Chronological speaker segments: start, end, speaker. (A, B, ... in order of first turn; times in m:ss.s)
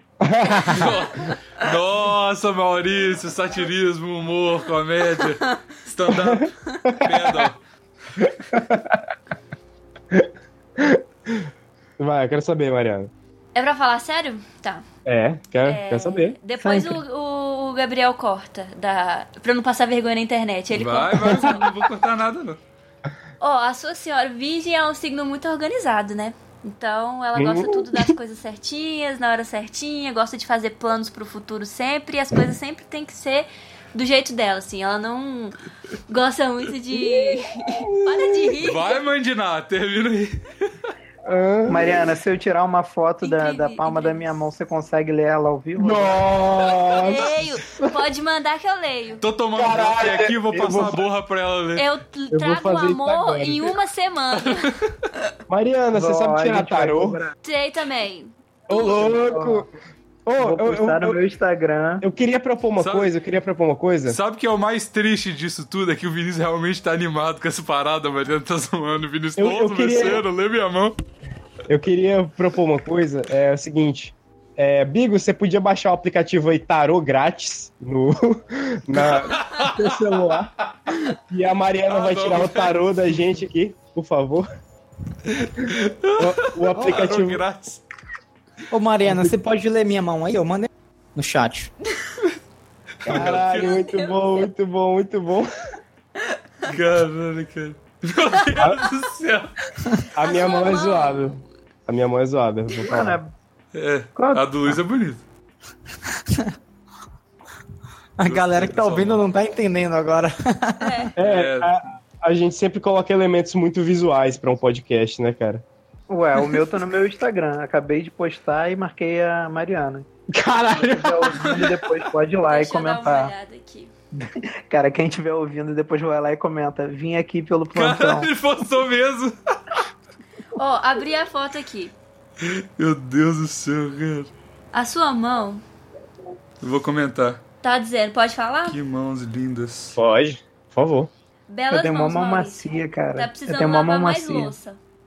0:00.2-0:01.1 A
0:00.7-0:07.6 B
0:06.2-0:07.1 A
0:08.2-0:09.0 A
0:10.1-0:13.1 A
0:13.5-0:14.8 C
0:15.1-0:16.4 A
0:15.6-0:21.7 C
0:16.6-0:17.0 D
0:20.7-0:22.6 B
0:23.4-0:35.6 C
0:27.4-0:28.1 A
0:36.1-0:39.0 C
0:38.0-0:38.5 A
0:38.6-0:40.4 B
0:41.2-0:42.1 A
0:41.7-0:46.2 D
0:43.2-0:44.4 C
0:45.8-0:48.0 A
0:46.6-0:49.2 C
0:49.2-0:51.8 B
0:49.6-0:51.0 A
0:51.8-0:54.7 C
0:52.3-0:53.8 A
0:54.4-0:54.9 B
0:55.5-0:57.2 A
0:55.9-0:57.4 D
0:57.4-0:59.1 C
0:58.7-0:59.7 A
0:59.1-0:59.7 D
1:00.3-1:01.2 A
1:00.4-1:02.0 D
1:02.0-1:04.2 A
1:02.8-1:03.1 B
1:04.1-1:11.0 B
1:09.4-1:10.2 A
1:11.7-1:24.5 A
1:19.0-1:20.0 B
1:21.9-1:22.9 B
1:25.3-1:27.8 B
1:26.2-1:27.4 A
1:26.8-1:27.1 E
1:28.7-1:31.7 E
1:29.1-1:29.4 A
1:33.1-1:33.8 B
1:33.1-1:35.5 A
1:33.1-1:34.3 C
1:36.7-1:39.6 B
1:40.2-1:43.2 A
1:40.2-1:41.4 C
1:42.8-1:43.3 D
1:43.7-1:45.2 B
1:44.2-1:44.8 D
1:46.1-1:46.5 E
1:48.2-1:51.1 E
1:48.2-1:49.2 B
1:50.8-1:51.1 C
1:51.2-1:55.6 A
1:51.2-1:51.7 B
1:56.1-2:00.1 D
2:00.3-2:01.7 A
2:00.8-2:03.3 D
2:02.5-2:03.9 C
2:04.2-2:08.3 D
2:07.8-2:09.4 B
2:10.6-2:12.0 C
2:12.4-2:14.3 B
2:14.7-2:15.6 C
2:16.6-2:17.4 B
2:17.6-2:18.8 C
2:18.7-2:20.0 B
2:19.9-2:21.1 A
2:21.5-2:24.8 C
2:21.7-2:24.5 D